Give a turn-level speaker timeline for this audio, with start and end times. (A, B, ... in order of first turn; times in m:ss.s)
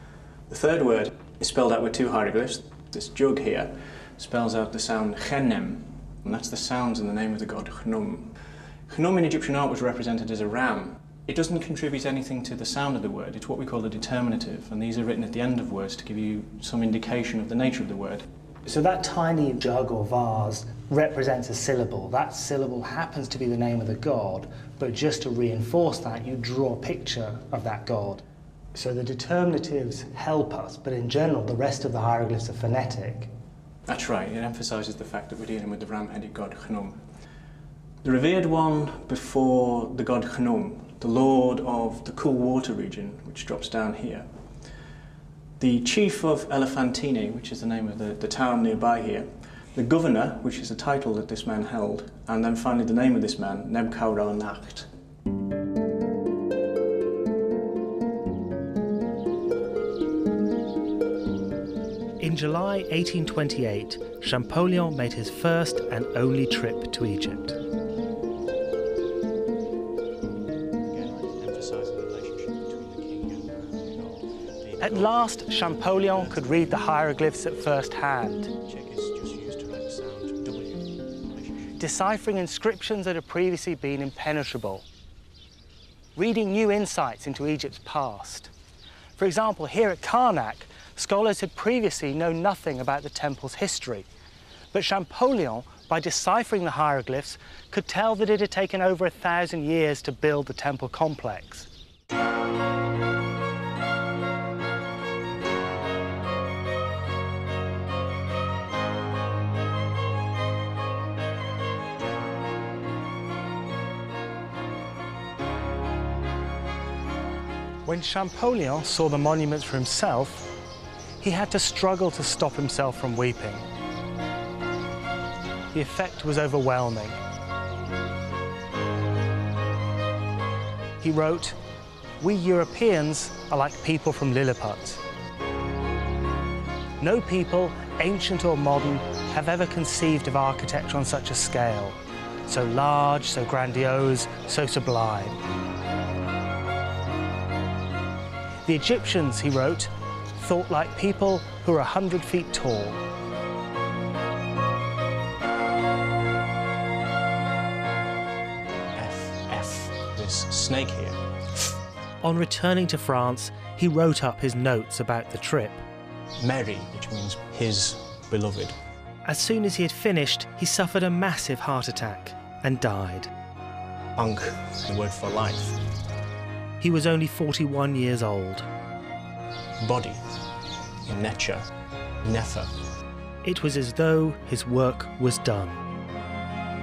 0:00.5-0:18.2 A
0:18.6-0:28.2 B
0:28.7-0:33.3 B
0:33.8-0:37.0 A
0:38.0-0:44.7 A
0:45.6-0:54.9 A
1:02.2-1:07.6 B
1:10.8-1:16.6 A
1:14.8-1:18.5 B
1:18.6-1:21.8 A
1:21.8-1:24.8 B
1:26.2-1:28.5 B
1:29.2-1:34.1 B
1:34.7-1:41.7 B
1:57.8-2:00.5 B
2:01.2-2:03.6 B
2:05.7-2:07.2 B
2:11.0-2:11.6 B
2:12.2-2:15.0 B
2:17.0-2:25.4 B
2:28.6-2:33.0 B
2:38.9-2:41.2 A
2:42.2-2:45.8 B
2:46.4-2:48.8 A
2:49.2-2:53.3 B
2:54.2-2:55.8 A
2:56.8-2:58.7 B
2:59.8-3:00.3 A
3:01.0-3:01.6 A
3:02.2-3:02.7 A
3:03.4-3:05.8 B